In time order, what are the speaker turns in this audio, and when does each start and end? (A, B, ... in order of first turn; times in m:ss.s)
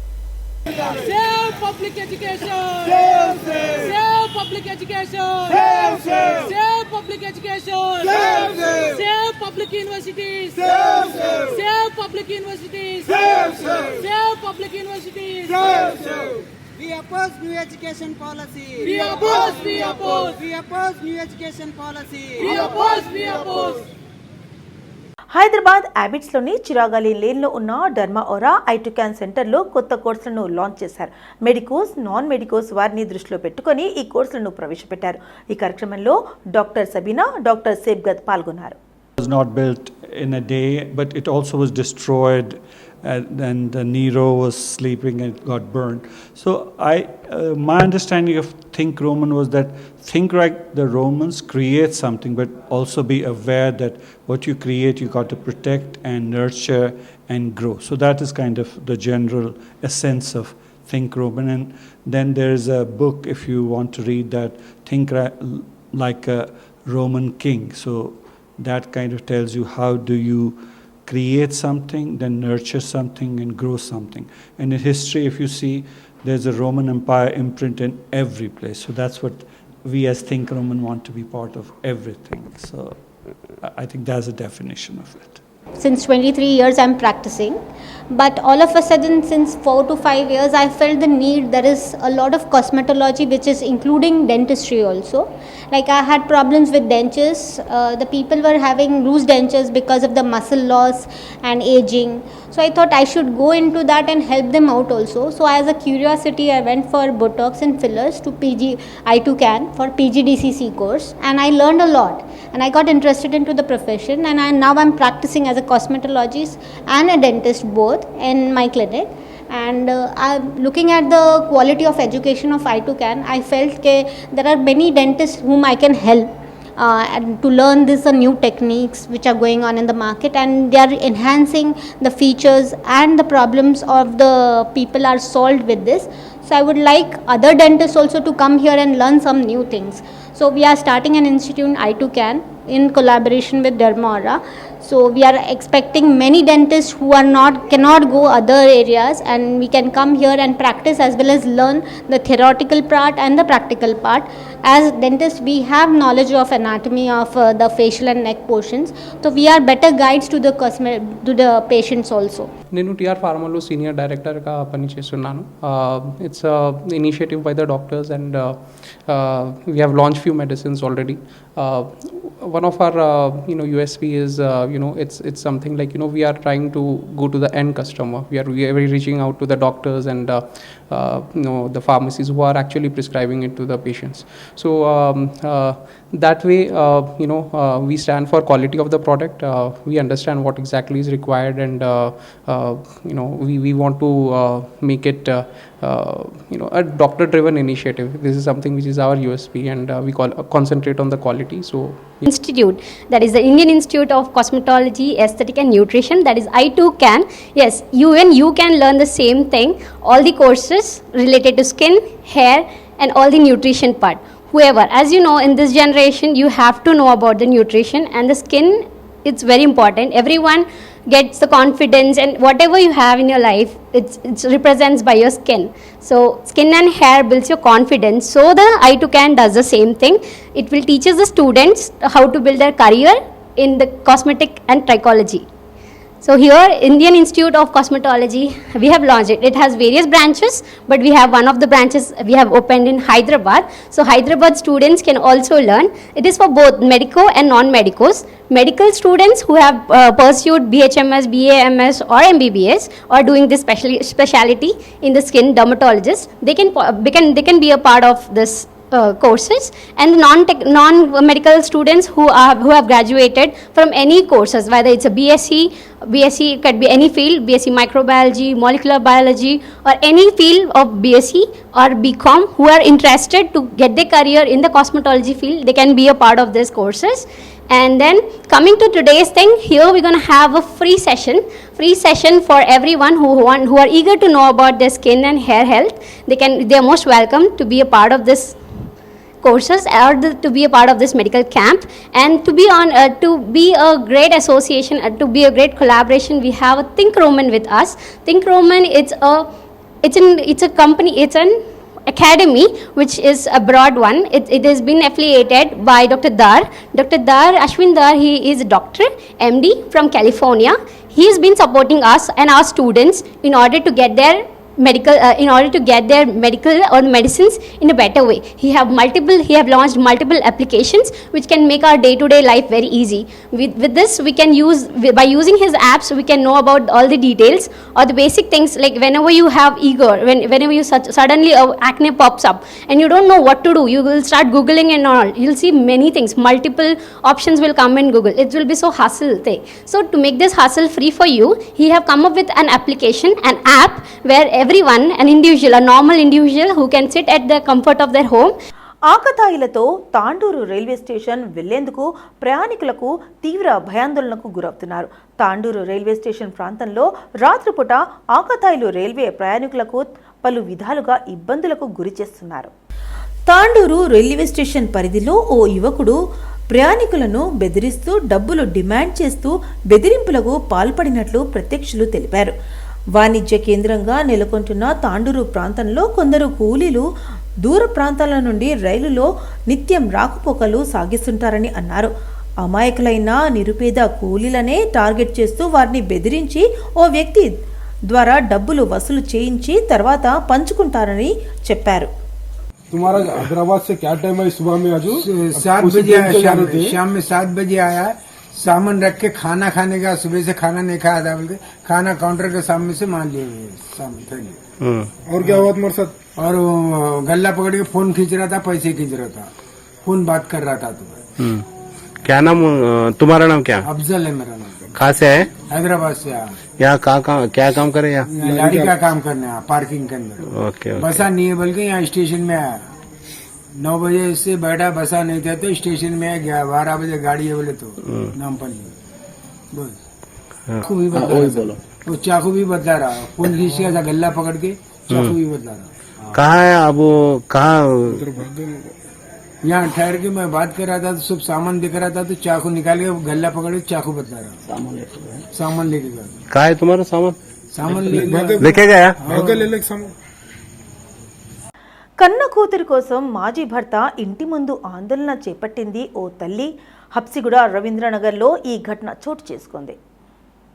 0:01.0-0:15.8 A
0:13.3-0:13.8 B
0:15.5-0:22.8 B
0:18.8-0:20.4 A
0:22.4-0:23.8 A
0:25.3-0:38.8 C
0:39.2-1:25.4 D
1:25.8-1:27.6 E
1:28.1-2:42.5 E
2:42.7-3:22.3 F
3:22.2-3:55.4 G
3:56.2-4:48.6 G
4:49.4-4:59.5 G
5:00.0-5:48.6 G
5:49.1-6:02.7 C
6:03.5-6:06.2 C
6:06.7-6:12.5 C
6:13.2-6:17.1 C
6:17.6-6:22.1 C
6:22.6-6:27.5 C
6:28.1-6:32.1 C
6:32.9-6:37.0 H
6:35.1-6:44.6 I
6:44.8-6:45.1 J
6:45.2-6:46.2 H
6:45.4-6:45.7 I
6:46.4-6:49.5 I
6:50.0-6:51.2 I
6:51.4-6:51.6 J
6:52.2-6:53.9 J
6:53.8-6:54.9 I
6:54.9-6:55.5 J
6:55.6-6:56.6 I
6:56.8-6:58.3 J
6:58.3-7:00.5 I
6:58.4-6:59.0 H
7:00.4-7:01.2 J
7:01.0-7:02.9 I
7:03.8-7:08.9 I
7:08.0-7:08.3 J
7:09.7-7:10.0 I
7:10.8-7:15.9 I
7:15.1-7:15.4 J
7:16.3-7:18.2 J
7:18.1-7:18.9 H
7:19.6-7:24.6 I
7:25.5-7:26.4 I
7:26.5-7:27.4 J
7:27.7-7:28.7 I
7:28.0-7:30.1 H
7:28.1-7:29.2 J
7:29.2-7:29.7 I
7:32.2-7:40.0 C